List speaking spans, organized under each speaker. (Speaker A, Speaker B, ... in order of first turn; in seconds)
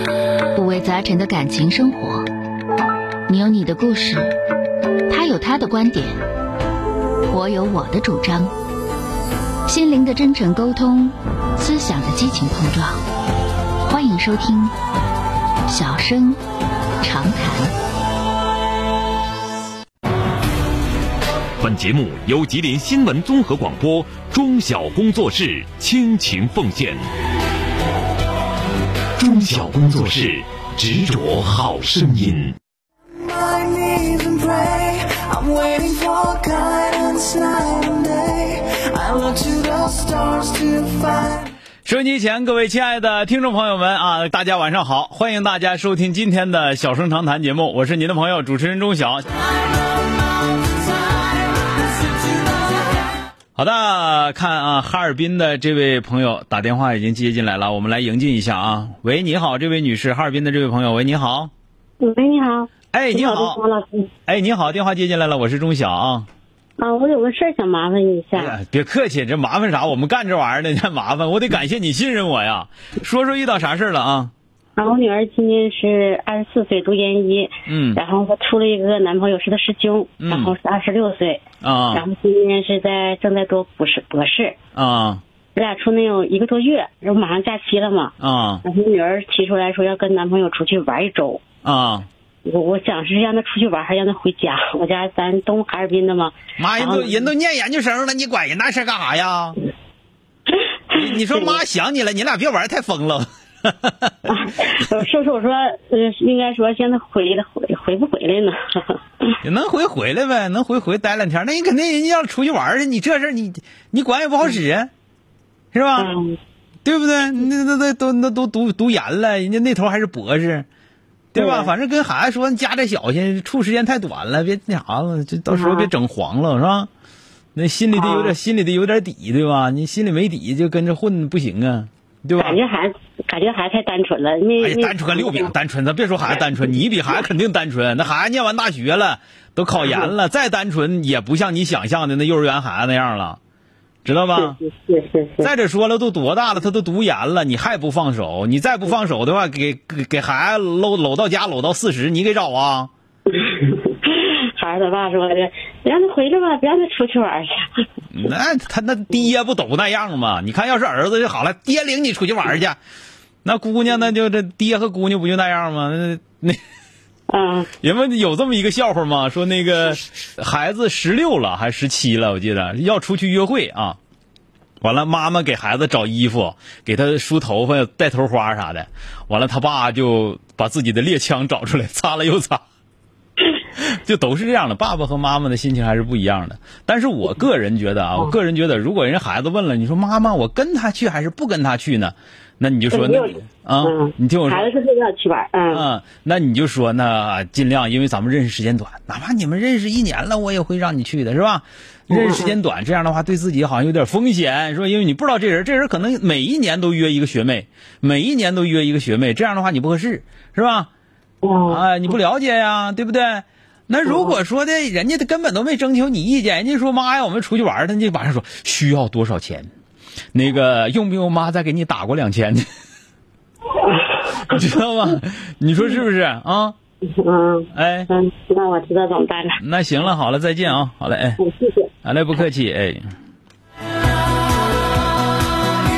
Speaker A: 0.5-2.3, 3.3-4.3, 5.1-6.2, 7.3-8.5, 9.7-13.0, 13.8-14.7, 15.7-16.4, 17.0-17.7
Speaker B: 21.6-27.0, 29.2-32.6
Speaker C: 33.1-41.5, 49.9-52.8
Speaker D: 41.8-49.3, 53.5-61.5, 62.9-63.6, 64.3-66.3, 68.3-74.3, 77.7-78.0, 80.2-80.5, 81.6-82.0, 84.8-85.2, 88.2-88.6, 91.6-92.1, 96.6-99.6, 100.9-104.3, 109.4-114.9, 115.7-116.1, 116.8-120.7, 121.3-126.9, 127.5-132.6, 134.6-143.4, 144.0-144.6, 145.4-152.9, 158.1-162.8, 163.4-166.6, 167.8-174.0, 174.8-182.6, 183.8-194.7, 195.7-210.9, 211.7-219.7, 220.3-222.7, 224.3-226.7, 227.7-228.1, 229.6-231.4, 232.0-233.1
Speaker E: 62.0-64.1, 66.8-68.6, 74.8-84.6, 85.5-91.4, 92.4-97.3, 100.9-101.6, 104.3-109.3, 116.0-116.4, 121.4-121.7, 125.5-125.9, 127.9-128.3, 132.4-135.5, 144.3-145.5, 153.3-157.8, 167.3-167.7, 192.9-195.9, 202.1-202.5, 211.4-212.1, 214.1-214.4, 223.8-224.7, 227.0-229.6, 231.4-231.9